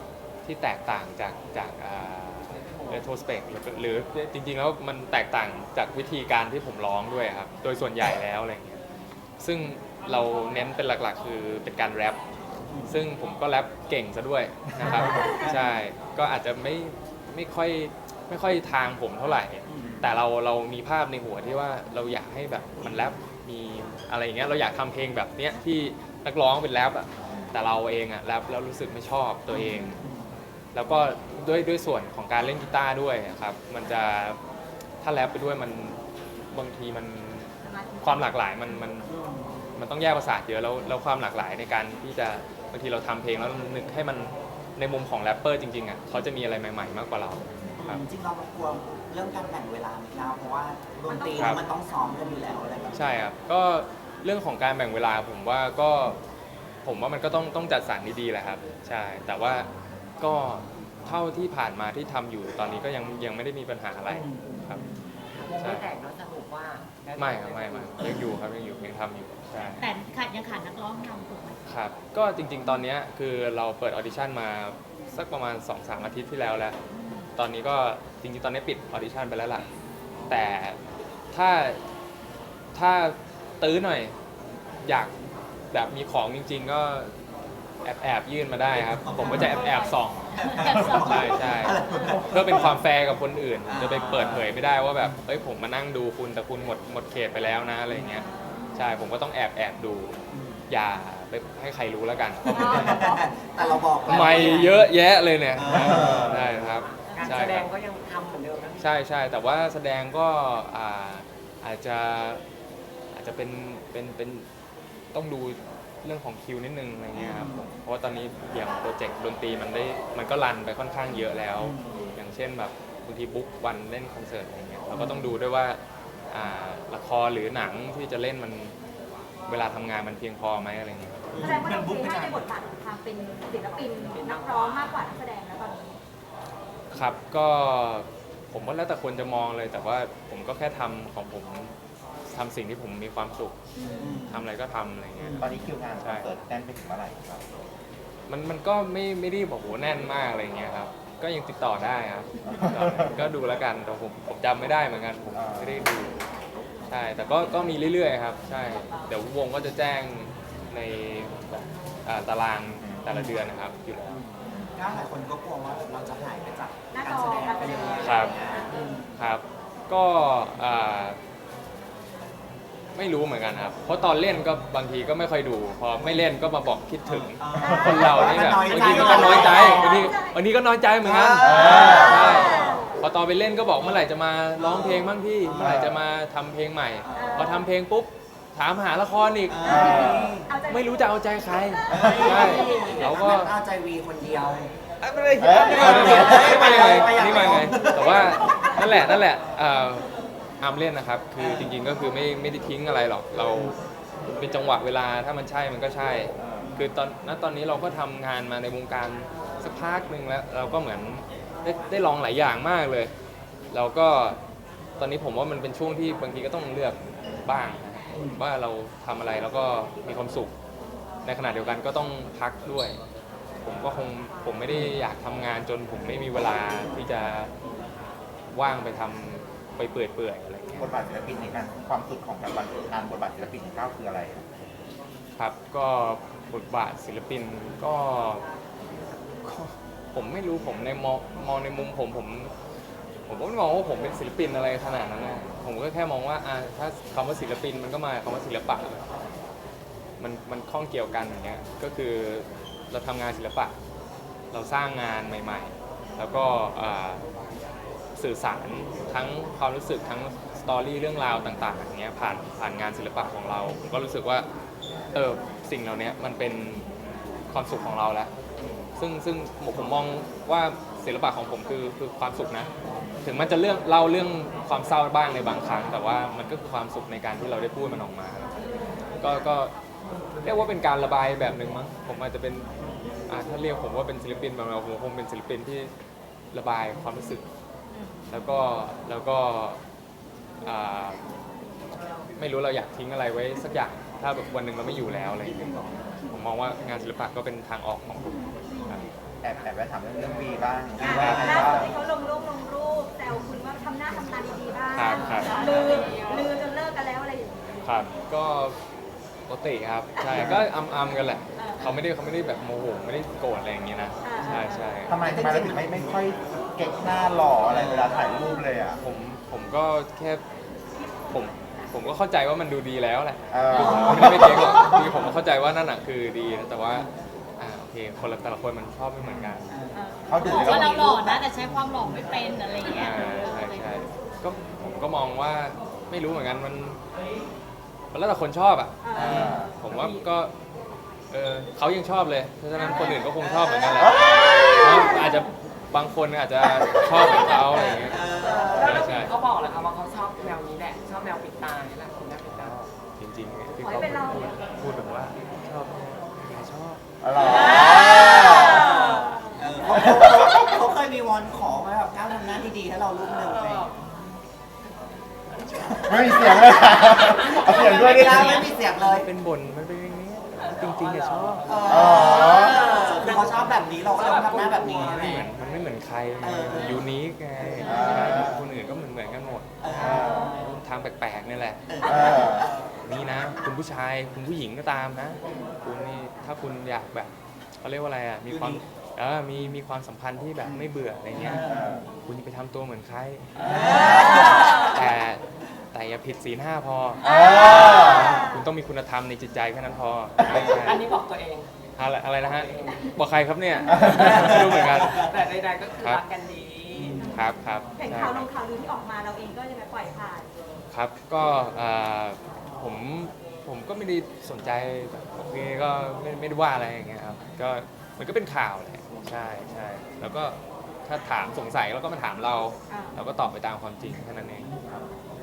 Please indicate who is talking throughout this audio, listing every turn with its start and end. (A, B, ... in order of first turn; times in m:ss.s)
0:00.4-0:08.8 A
0:02.5-0:03.0 B
0:09.4-0:12.2 A
0:12.7-0:13.0 C
0:12.9-0:30.0 A
0:14.8-0:15.7 C
0:19.7-0:19.9 C
0:29.5-0:30.3 C
0:30.7-0:34.4 A
0:35.0-0:39.1 A
0:37.6-0:38.4 D
0:39.0-0:39.5 C
0:39.8-0:48.0 A
0:47.8-0:53.2 C
0:51.1-0:51.6 D
0:51.4-0:51.6 A
0:52.9-0:56.2 A
0:56.8-0:59.7 A
1:00.2-1:04.8 A
1:04.1-1:04.6 B
1:05.3-1:08.1 B
1:05.6-1:05.9 A
1:07.2-1:09.9 A
1:08.0-1:08.3 C
1:09.8-1:11.7 E
1:11.7-1:16.8 A
1:16.9-1:17.3 E
1:17.4-1:19.7 A
1:20.3-1:20.8 A
1:21.3-1:21.8 A
1:22.7-1:24.2 A
1:24.8-1:25.1 A
1:25.7-1:27.2 A
1:27.8-1:30.3 A
1:28.7-1:29.6 C
1:29.2-1:31.8 E
1:30.4-1:32.8 C
1:30.9-1:40.2 A
1:33.7-1:35.2 C
1:38.3-1:38.6 D
1:40.3-1:40.6 C
1:40.7-1:43.0 A
1:42.4-1:44.8 C
1:42.5-1:43.8 D
1:44.1-1:47.7 A
1:44.2-1:44.9 B
1:45.6-1:46.4 C
1:45.8-1:46.5 F
1:47.1-1:47.4 D
1:47.1-1:48.9 B
1:48.8-1:52.4 A
1:53.1-1:54.5 A
1:55.1-2:08.8 A
1:57.2-1:57.7 C
2:01.6-2:02.1 C
2:04.9-2:05.3 C
2:09.5-2:11.4 A
2:11.3-2:12.5 C
2:11.4-2:16.0 D
2:14.1-2:15.0 B
2:16.9-2:21.8 A
2:22.3-2:23.6 A
2:23.8-2:24.3 D
2:24.0-2:24.5 C
2:24.3-2:26.3 A
2:25.2-2:25.5 C
2:25.4-2:27.5 F
2:28.3-2:36.2 A
2:32.4-2:33.2 F
2:35.3-2:35.8 F
2:36.9-2:44.2 A
2:38.6-2:39.1 D
2:42.8-2:43.1 F
2:44.1-2:49.1 C
2:46.9-2:48.8 D
2:48.0-2:48.4 A
2:49.2-2:51.2 A
2:53.0-3:13.6 A
2:57.1-3:00.1 C
2:57.6-2:58.5 F
2:57.6-3:00.4 D
3:01.0-3:02.5 C
3:01.4-3:02.1 F
3:01.8-3:03.0 D
3:04.6-3:05.8 C
3:05.5-3:06.0 F
3:07.1-3:07.6 C
3:07.1-3:07.7 D
3:09.5-3:10.5 C
3:09.6-3:10.4 F
3:10.5-3:13.4 D
3:11.9-3:14.7 C
3:15.0-3:20.1 A
3:15.4-3:16.6 F
3:15.5-3:18.8 C
3:20.6-3:33.1 A
3:21.4-3:21.7 C
3:26.4-3:26.7 F
3:33.7-3:34.4 A
3:35.0-3:40.5 A
3:38.1-3:38.4 C
3:41.2-3:43.0 A
3:43.6-3:47.5 A
3:48.5-3:51.0 A
3:50.8-3:54.5 F
3:55.4-3:58.4 A
3:59.4-4:02.5 A
4:03.3-4:09.1 A
4:10.2-4:13.8 A
4:14.5-4:17.2 A
4:18.2-4:24.5 A
4:25.1-4:26.9 A
4:27.5-4:28.3 A
4:29.0-4:32.7 A
4:33.2-4:38.5 A
4:39.2-4:39.7 A
4:40.4-4:42.7 A
4:43.3-4:45.9 A
4:46.5-4:47.4 A
4:47.9-4:48.2 D
4:48.3-4:49.8 A
4:50.6-4:51.2 A
4:52.4-4:55.8 A
4:55.4-4:56.2 C
4:56.3-4:59.1 A
4:59.4-5:02.0 F
5:01.0-5:02.0 C
5:01.0-5:07.8 D
5:01.2-5:01.8 A
5:04.9-5:05.6 A
5:05.2-5:06.0 C
5:05.4-5:06.2 B
5:07.8-5:08.8 A
5:09.5-5:15.2 A
5:10.4-5:10.6 F
5:11.6-5:11.9 D
5:14.2-5:14.9 D
5:15.1-5:19.0 F
5:15.2-5:16.2 C
5:17.7-5:18.2 C
5:19.0-5:20.4 A
5:21.3-5:29.7 A
5:23.5-5:24.6 F
5:23.8-5:25.1 C
5:29.3-5:29.6 F
5:29.7-5:32.2 C
5:30.0-5:30.2 D
5:30.3-5:31.1 F
5:30.3-5:34.1 E
5:32.9-5:37.0 A
5:38.1-5:40.5 A
5:39.0-5:40.2 D
5:39.2-5:39.5 C
5:39.2-5:39.8 F
5:41.3-5:49.4 A
5:42.8-5:43.1 D
5:43.0-5:44.8 C
5:44.6-5:45.2 D
5:47.5-5:49.2 C
5:48.4-5:52.8 B
5:52.4-5:57.0 A
5:53.8-5:54.6 D
5:57.2-5:58.8 F
5:57.4-6:03.9 C
5:58.5-5:59.6 D
5:59.9-6:00.7 F
6:03.3-6:04.0 B
6:05.6-6:05.8 B
6:05.8-6:09.3 C
6:06.0-6:08.7 F
6:07.1-6:08.6 B
6:09.0-6:11.7 A
6:10.6-6:15.5 B
6:11.6-6:15.5 C
6:11.9-6:12.8 F
6:14.8-6:21.9 A
6:16.4-6:17.0 C
6:17.6-6:18.5 C
6:17.8-6:18.7 F
6:19.8-6:20.7 C
6:20.0-6:20.5 F
6:21.9-6:23.0 C
6:22.0-6:22.7 F
6:23.0-6:31.6 A
6:28.5-6:28.8 C
6:31.3-6:31.9 C
6:31.5-6:32.1 F
6:32.2-6:35.4 A
6:33.6-6:35.0 C
6:33.7-6:34.2 B
6:35.9-6:41.1 A
6:37.3-6:38.2 F
6:37.3-6:38.6 D
6:37.4-6:38.0 C
6:40.4-6:40.8 F
6:40.5-6:41.7 B
6:42.0-6:45.3 A
6:42.4-6:43.1 B
6:44.0-6:47.2 B
6:44.2-6:45.1 C
6:46.0-6:46.2 A
6:47.0-6:47.3 C
6:47.3-6:48.5 A
6:48.0-6:50.5 D
6:50.9-7:04.7 A
7:02.9-7:03.2 D